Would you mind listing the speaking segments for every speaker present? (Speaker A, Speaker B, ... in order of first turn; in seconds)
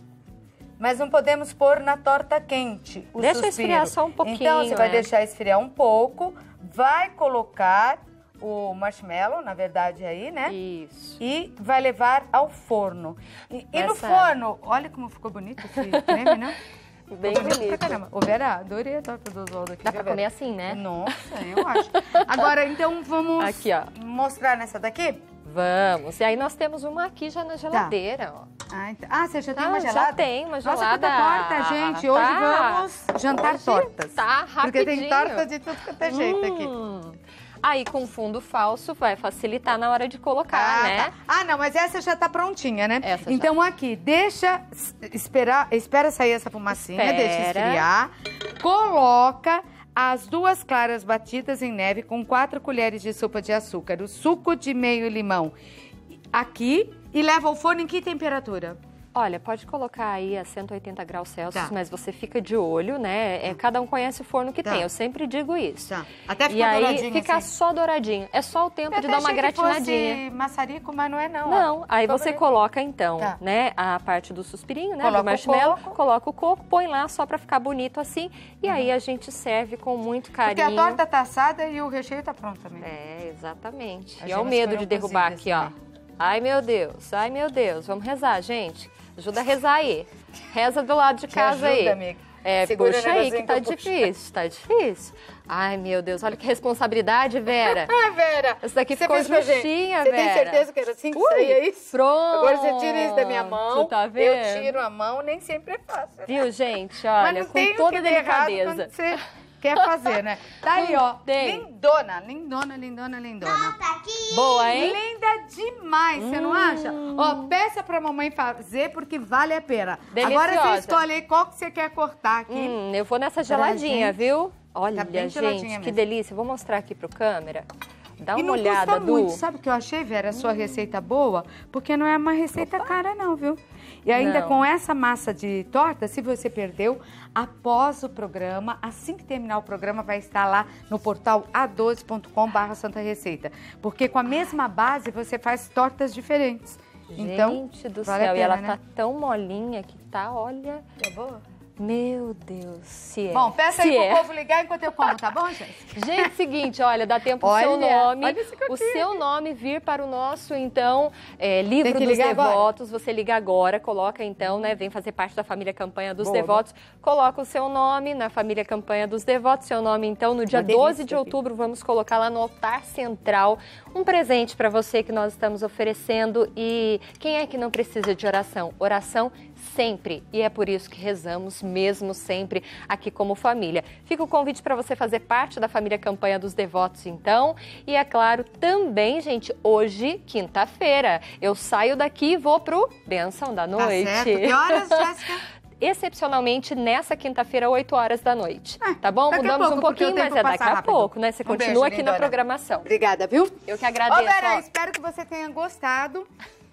Speaker A: 0.8-10.6, 11.2-16.6, 17.2-25.2, 28.7-36.7, 40.5-55.5, 56.3-58.8, 65.9-67.5, 68.9-72.4, 75.0-76.0, 78.7-78.9, 80.4-82.9, 84.2-85.7, 91.3-94.1, 97.5-106.5, 107.2-122.8, 123.5-124.2, 124.9-126.0, 128.3-148.8, 151.0-151.4, 153.3-156.3, 157.4-159.2, 161.8-162.7, 166.2-166.6, 170.5-171.3, 193.8-195.4, 198.8-206.3
Speaker B: 3.2-5.1, 10.5-11.2, 13.7-14.4, 15.7-16.4, 17.1-18.0, 19.8-22.5, 23.4-23.9, 25.4-28.5, 29.6-41.1, 43.0-43.5, 46.7-47.9, 59.1-70.2, 71.5-81.0, 82.8-97.9, 98.6-104.8, 106.3-109.2, 109.8-110.2, 110.7-111.7, 114.3-115.0, 116.2-117.6, 120.1-121.0, 122.5-127.7, 128.2-129.4, 134.2-134.7, 147.1-150.8, 151.8-154.3, 155.9-195.2, 195.8-202.9, 203.7-204.6